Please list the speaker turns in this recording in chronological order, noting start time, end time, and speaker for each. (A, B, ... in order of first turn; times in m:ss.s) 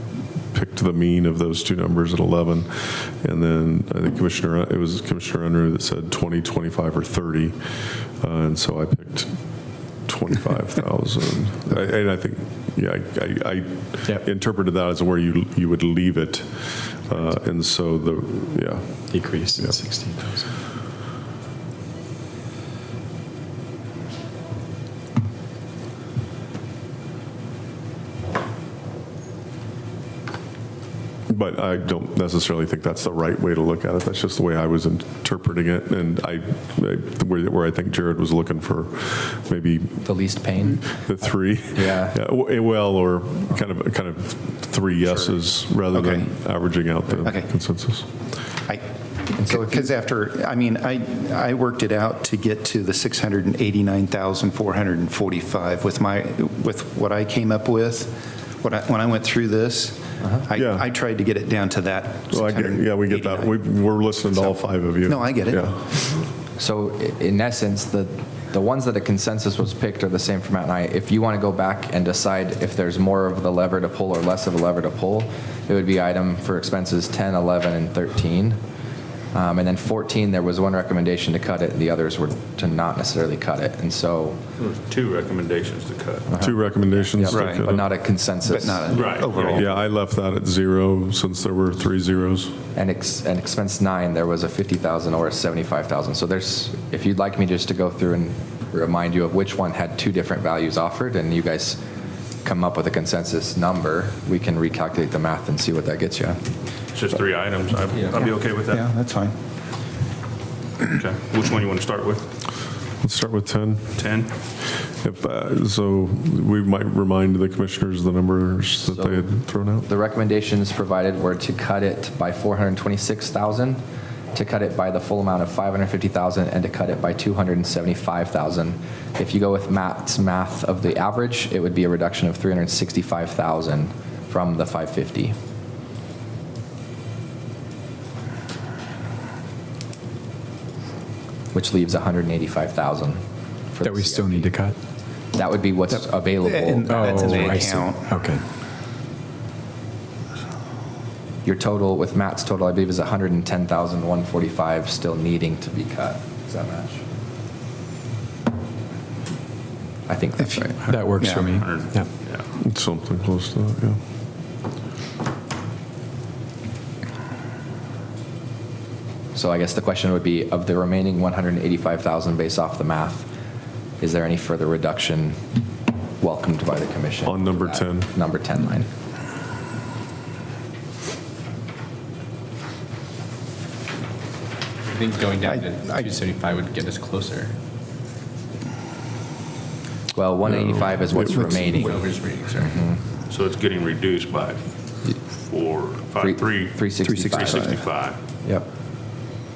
0:00.4-0:09.4 A
0:10.0-0:19.7 A
0:19.1-0:20.5 B
0:31.3-0:40.1 A
0:40.0-0:41.0 C
0:40.8-0:48.1 A
0:41.6-0:42.2 C
0:45.9-0:46.3 D
0:47.2-0:47.5 D
0:48.7-1:03.5 D
0:49.5-0:49.9 C
1:00.6-1:00.8 A
1:02.3-1:05.8 A
1:04.3-1:05.9 D
1:06.6-1:18.6 C
1:19.3-1:24.4 C
1:24.6-1:26.3 E
1:26.3-1:29.1 C
1:26.4-1:27.8 A
1:27.3-1:27.6 D
1:28.4-1:29.7 D
1:28.9-1:29.7 E
1:29.5-1:32.6 A
1:32.7-1:41.8 C
1:42.4-1:46.4 C
1:46.9-1:48.9 E
1:48.7-1:49.3 D
1:50.8-1:52.3 E
1:53.0-1:54.0 A
1:54.0-1:54.3 E
1:54.9-1:59.9 A
1:58.9-2:03.8 C
2:04.3-2:15.4 C
2:21.5-2:24.5 C
2:23.8-2:24.8 B
2:25.3-2:27.6 C
2:26.4-2:28.1 D
2:26.9-2:28.4 B
2:31.4-2:37.0 C
2:40.1-2:40.8 C
2:40.4-2:41.5 D
2:40.8-2:42.4 E
2:40.8-2:42.1 B
2:42.6-2:44.0 A
2:49.3-2:53.3 C
2:54.0-2:55.4 C
2:56.2-2:58.9 C
2:57.2-2:58.1 A
3:04.8-3:07.5 F
3:05.4-3:06.1 D
3:10.1-3:13.0 C
3:11.2-3:11.7 D
3:11.7-3:12.8 F
3:13.3-3:14.6 E
3:15.4-3:18.2 E
3:16.2-3:17.7 C
3:17.0-3:17.8 D